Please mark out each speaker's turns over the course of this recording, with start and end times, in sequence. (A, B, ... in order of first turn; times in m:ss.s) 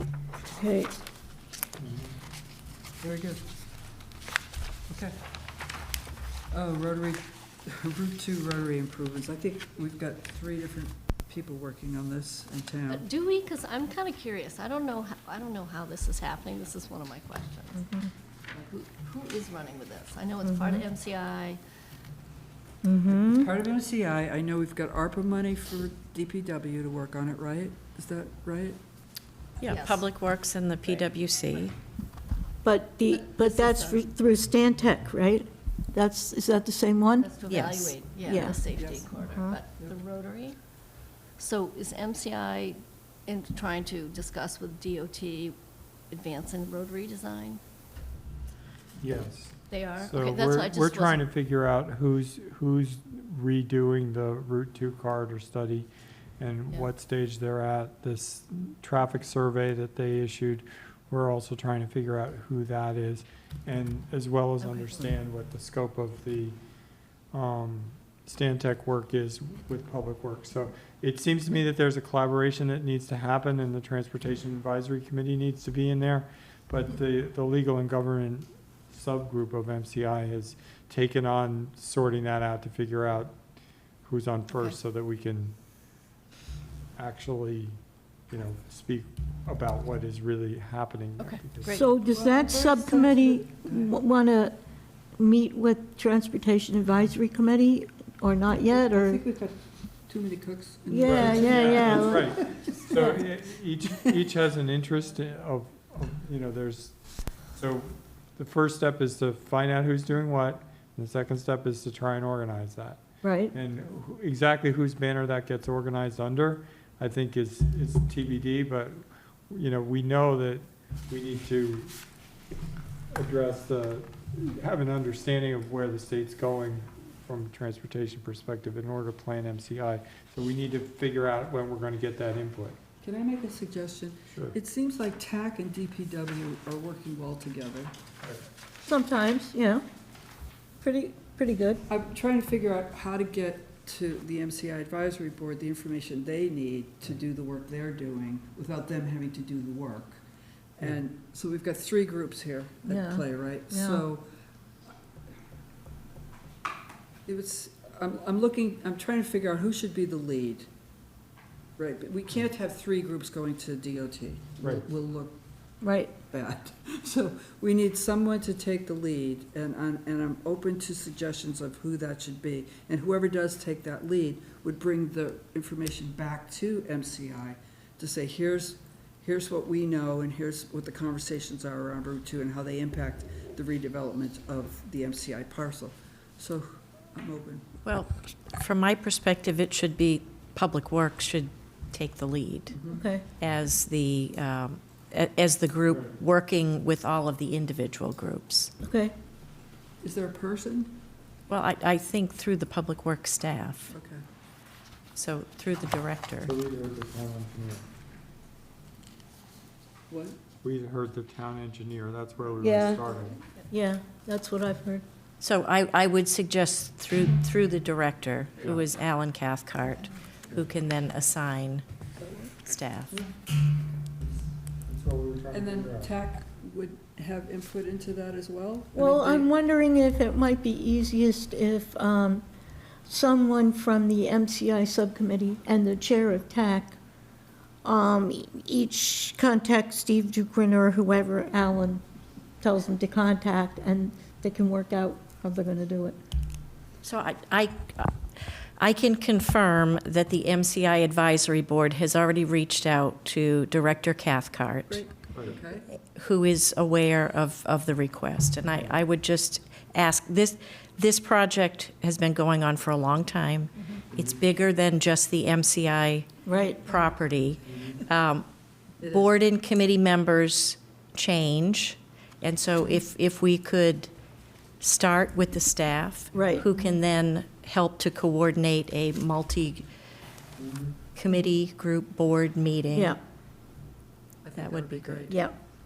0:00.6-0:00.9 A
0:01.8-0:02.1 B
0:03.0-0:03.4 C
0:04.9-0:05.2 C
0:06.5-0:13.0 C
0:12.9-0:17.8 D
0:17.8-0:18.1 A
0:18.6-0:21.6 D
0:20.4-0:20.8 A
0:22.8-0:23.5 A
0:23.1-0:28.8 C
0:29.6-0:31.8 E
0:29.6-0:30.0 D
0:32.6-0:37.4 A
0:33.1-0:34.0 D
0:37.2-0:40.6 D
0:37.4-0:38.1 E
0:38.2-0:38.6 A
0:38.6-0:39.1 C
0:39.2-0:39.6 A
0:41.4-0:45.6 D
0:46.1-0:47.6 D
0:49.0-0:55.9 B
0:49.7-0:51.3 D
0:56.4-1:06.6 B
1:04.6-1:05.0 D
1:07.3-1:23.4 B
1:24.0-1:25.6 B
1:24.5-1:24.8 D
1:27.0-1:31.8 B
1:31.2-1:32.0 D
1:31.7-1:34.6 A
1:32.0-1:33.9 C
1:35.2-1:39.2 A
1:38.6-1:43.2 C
1:40.9-1:42.3 A
1:41.0-2:01.9 B
1:53.2-1:53.5 A
2:03.1-2:12.8 B
2:13.0-2:17.9 C
2:18.8-2:19.8 A
2:20.8-2:21.8 A
2:21.9-2:30.2 C
2:30.8-2:34.2 C
2:32.8-2:34.0 A
2:37.3-2:40.7 C
2:41.8-2:45.4 C
2:44.6-2:44.8 B
2:45.8-2:46.1 A
2:46.3-3:07.6 C
3:07.8-3:12.8 E
3:12.7-3:13.0 C
3:12.9-3:13.3 A
3:13.4-3:18.7 E
3:18.8-3:19.1 A
3:20.0-3:20.9 C
3:21.5-3:23.9 E
3:23.9-3:24.2 C
3:25.1-3:26.5 E
3:26.4-3:27.8 B
3:30.1-3:30.4 C
3:30.6-3:33.4 B
3:32.6-3:33.0 A
3:33.7-3:35.0 A
3:35.4-3:41.8 E
3:42.6-3:43.1 E
3:44.2-3:46.1 B
3:45.5-3:49.5 C
3:48.9-3:52.4 A
3:53.0-3:57.0 A
3:57.8-4:02.0 A
4:02.6-4:06.2 A
4:07.0-4:08.2 E
4:08.8-4:15.0 E
4:14.9-4:15.9 C
4:16.1-4:26.3 E
4:26.4-4:27.0 A
4:26.8-4:28.4 E
4:29.0-4:29.3 C
4:29.0-4:34.1 E
4:34.8-4:39.8 E
4:36.3-4:36.7 A
4:40.6-4:40.9 C
4:41.1-4:43.2 E
4:42.9-4:43.2 A
4:44.4-4:45.4 C
4:44.6-4:45.3 E
4:45.3-4:45.5 A